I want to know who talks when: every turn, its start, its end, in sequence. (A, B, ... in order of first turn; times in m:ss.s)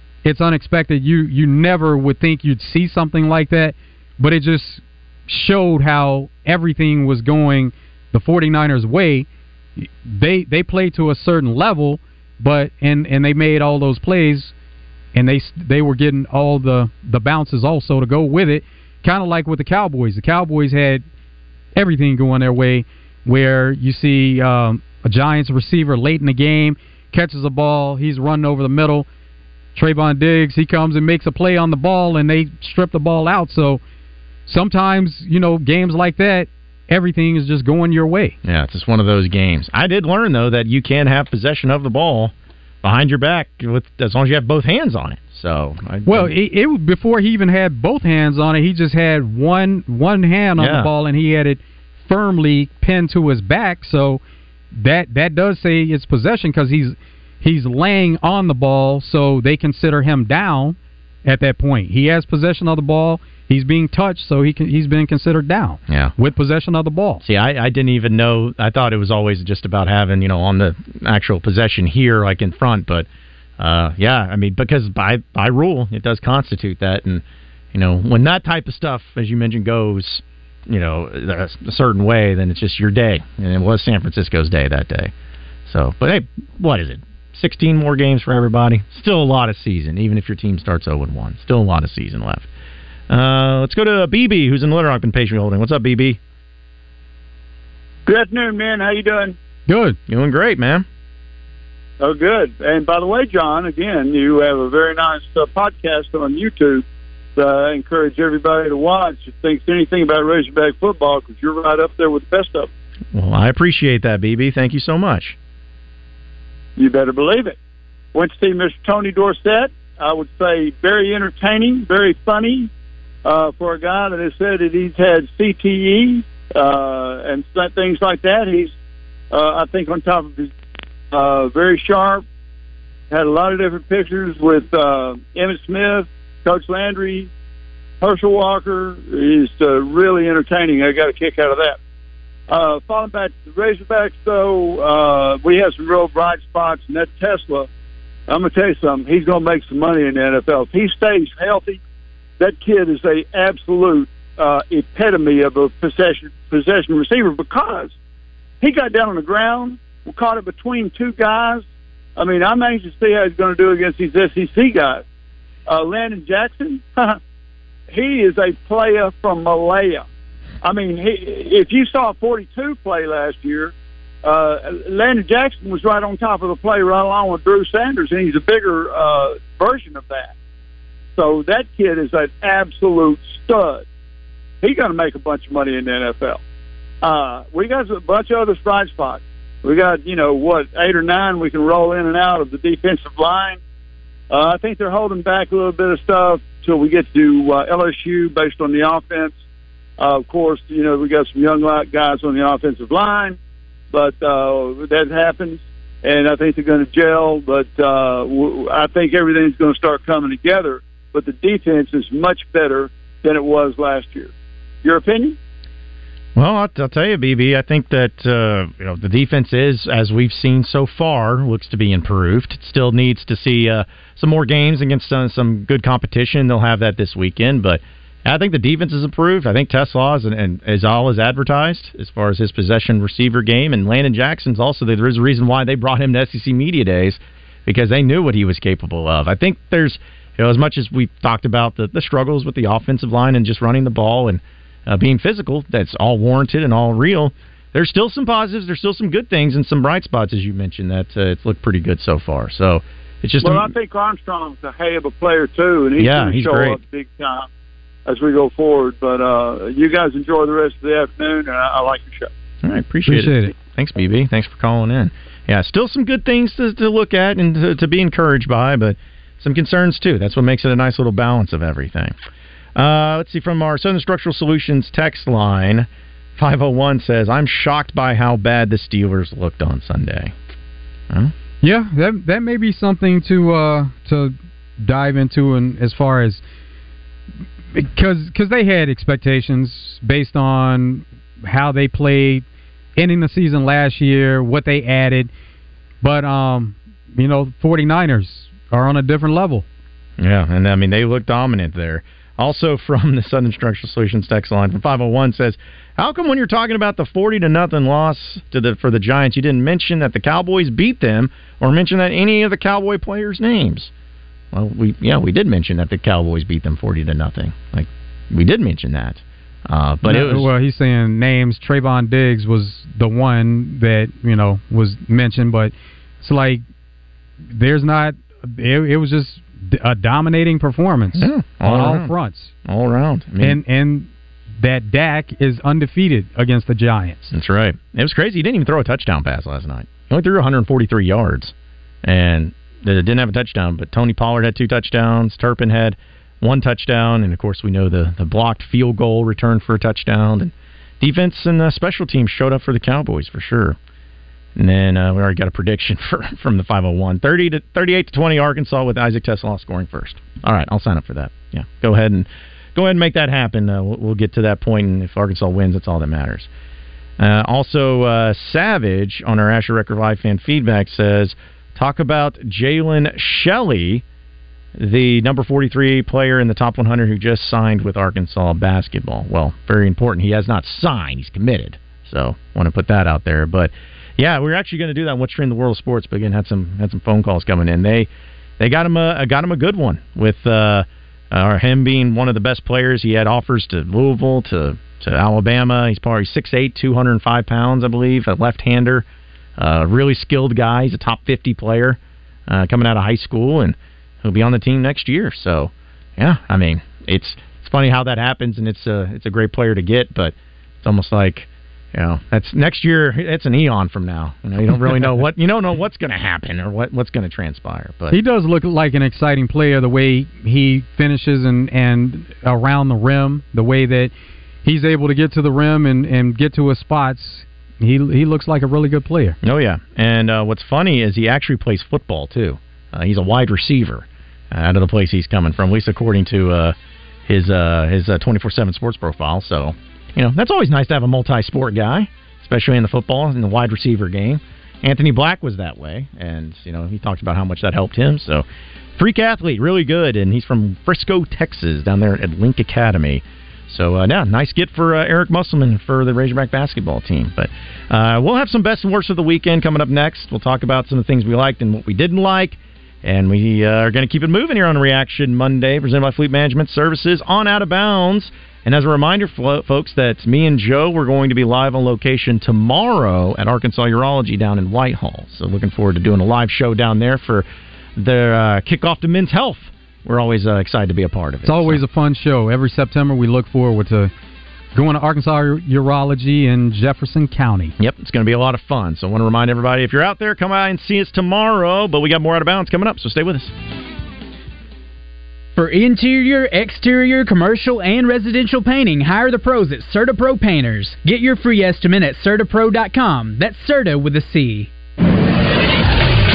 0:00.2-0:09.2 A
0:09.8-0:14.5 A
0:15.1-0:21.0 A
0:21.7-0:29.1 A
0:29.7-0:33.8 A
0:34.5-0:38.4 A
0:38.4-0:46.3 B
0:46.0-0:54.2 A
0:50.6-0:50.9 B
0:54.7-1:07.2 A
1:05.9-1:06.1 B
1:07.2-1:13.1 B
1:13.6-1:25.1 B
1:25.6-1:32.5 B
1:33.1-1:36.2 B
1:38.0-1:39.4 C
1:39.7-1:40.0 A
1:40.1-1:40.8 B
1:42.0-1:46.8 C
1:47.4-1:52.7 C
1:53.1-1:55.4 B
1:56.8-1:57.6 C
1:58.1-2:02.7 C
2:03.2-2:08.7 C
2:09.3-2:10.5 C
2:11.1-2:12.2 C
2:13.1-2:17.3 C
2:18.0-2:21.8 C
2:22.5-2:27.7 C
2:28.3-2:31.8 C
2:32.4-2:37.9 C
2:38.6-2:41.6 C
2:42.2-2:45.0 C
2:45.7-2:47.2 C
2:47.9-2:50.0 C
2:50.6-2:53.7 C
2:54.2-3:00.3 C
3:01.2-3:03.8 C
3:04.6-3:06.4 C
3:07.0-3:13.6 C
3:14.3-3:19.3 C
3:20.0-3:23.4 C
3:23.9-3:34.3 C
3:34.8-3:35.4 C
3:36.4-4:13.7 B
4:13.4-4:17.5 C
4:16.0-4:16.8 B
4:18.0-4:22.3 C
4:22.6-4:32.2 B
4:23.0-4:23.5 A
4:32.8-4:40.3 B
4:41.6-4:46.4 A
4:47.7-4:52.4 A
4:53.0-4:55.3 A
4:56.0-4:59.6 A
5:00.2-5:13.9 B
5:14.5-5:20.5 B
5:20.0-5:26.6 A
5:27.5-5:32.5 A
5:31.2-5:32.1 B
5:32.6-5:33.6 B
5:33.4-5:37.3 A
5:37.3-5:41.5 B
5:42.0-5:53.8 B
5:54.6-6:06.5 B
6:07.2-6:14.0 B
6:14.8-6:39.1 B
6:39.6-6:58.2 B
6:58.1-7:04.1 A
7:04.6-7:09.4 A
7:09.4-7:16.7 B
7:17.2-8:01.8 B
8:01.4-8:04.1 A
8:04.7-8:07.7 A
8:07.8-8:13.5 B
8:15.6-8:24.7 D